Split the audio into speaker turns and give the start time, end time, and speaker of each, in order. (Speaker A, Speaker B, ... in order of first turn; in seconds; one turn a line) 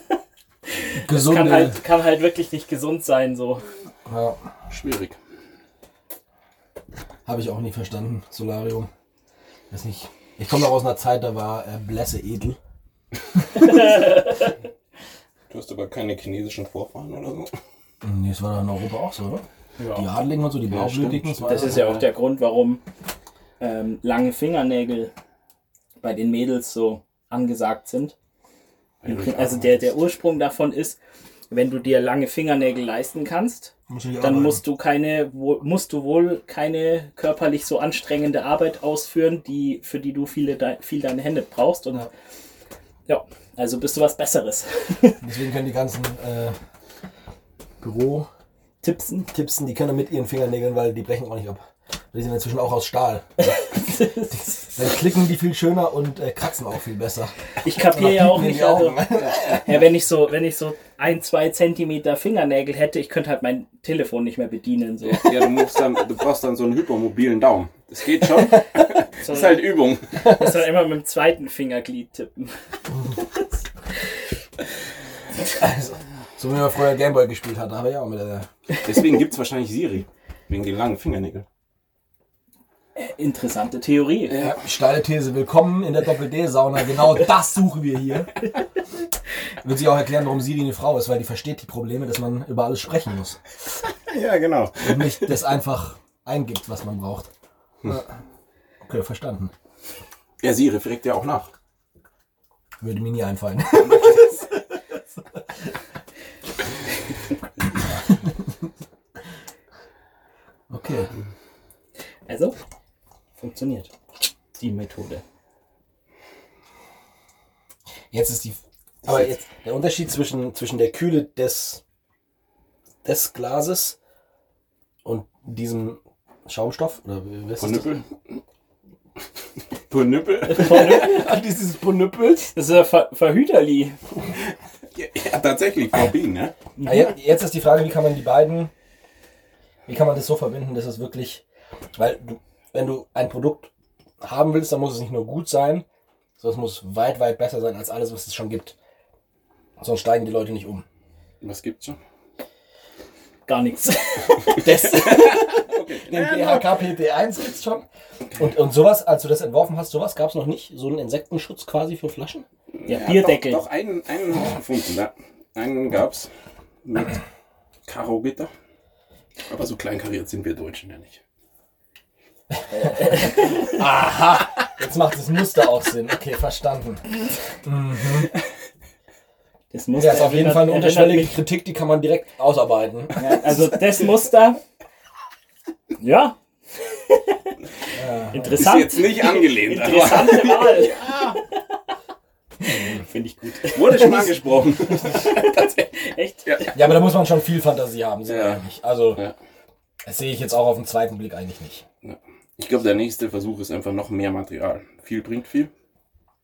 Speaker A: 0.8-3.6
Speaker B: 0.9-1.8
Speaker B: 4.1-4.4
Speaker C: 4.7-5.2
Speaker B: 7.2-8.9
Speaker B: 9.7-12.6
Speaker A: 13.6-14.5
Speaker C: 15.5-17.5
Speaker B: 18.0-21.9
Speaker A: 19.8-20.1
Speaker C: 20.7-22.1
Speaker A: 21.4-22.8
Speaker A: 23.6-25.1
Speaker A: 26.0-28.1
Speaker C: 29.0-29.9
Speaker A: 29.1-31.0
Speaker A: 31.5-42.1
Speaker B: 33.9-34.6
Speaker A: 43.1-45.2
Speaker B: 45.2-46.6
Speaker B: 47.8-48.3
Speaker A: 48.8-49.3
Speaker B: 49.3-53.5
Speaker A: 53.5-54.7
Speaker B: 54.3-59.8
Speaker A: 57.6-65.5
Speaker C: 65.0-70.4
Speaker A: 69.2-72.6
Speaker A: 73.1-73.5
Speaker B: 75.4-78.5
Speaker C: 78.8-81.5
Speaker A: 83.0-84.4
Speaker C: 84.3-84.6
Speaker B: 84.4-88.5
Speaker B: 89.6-93.4
Speaker C: 94.1-95.4
Speaker B: 94.8-97.3
Speaker B: 97.8-98.1
Speaker B: 98.8-99.5
Speaker C: 100.4-101.5
Speaker B: 102.8-104.6
Speaker B: 110.7-111.1
Speaker A: 112.3-112.6
Speaker A: 113.4-113.9
Speaker A: 114.6-115.2
Speaker B: 118.1-121.8
Speaker B: 123.0-124.0
Speaker B: 125.0-128.0
Speaker C: 127.6-128.1
Speaker C: 129.9-131.1
Speaker A: 130.5-131.2
Speaker B: 130.6-132.6
Speaker A: 132.5-134.0
Speaker C: 134.9-136.5
Speaker A: 136.8-137.1
Speaker B: 136.8-138.7
Speaker B: 139.9-141.4
Speaker B: 142.0-143.7
Speaker B: 144.2-145.8
Speaker B: 146.4-148.8
Speaker B: 149.8-150.8
Speaker C: 151.4-152.0
Speaker A: 153.5-154.6
Speaker B: 154.5-162.4
Speaker C: 154.9-156.8
Speaker C: 162.8-166.3
Speaker A: 162.9-163.6
Speaker C: 166.8-167.2
Speaker C: 167.9-168.5
Speaker C: 169.5-171.2
Speaker B: 172.8-177.1
Speaker A: 173.2-173.7
Speaker B: 177.6-178.3
Speaker A: 179.7-181.4
Speaker B: 179.9-183.7
Speaker A: 183.2-184.6
Speaker A: 186.0-187.5
Speaker B: 187.9-188.6
Speaker A: 188.3-191.9
Speaker C: 188.5-191.4
Speaker A: 192.6-196.9
Speaker C: 193.6-195.7
Speaker C: 196.4-196.8
Speaker B: 196.7-199.2
Speaker C: 198.3-198.6
Speaker B: 200.0-201.8
Speaker C: 202.0-205.7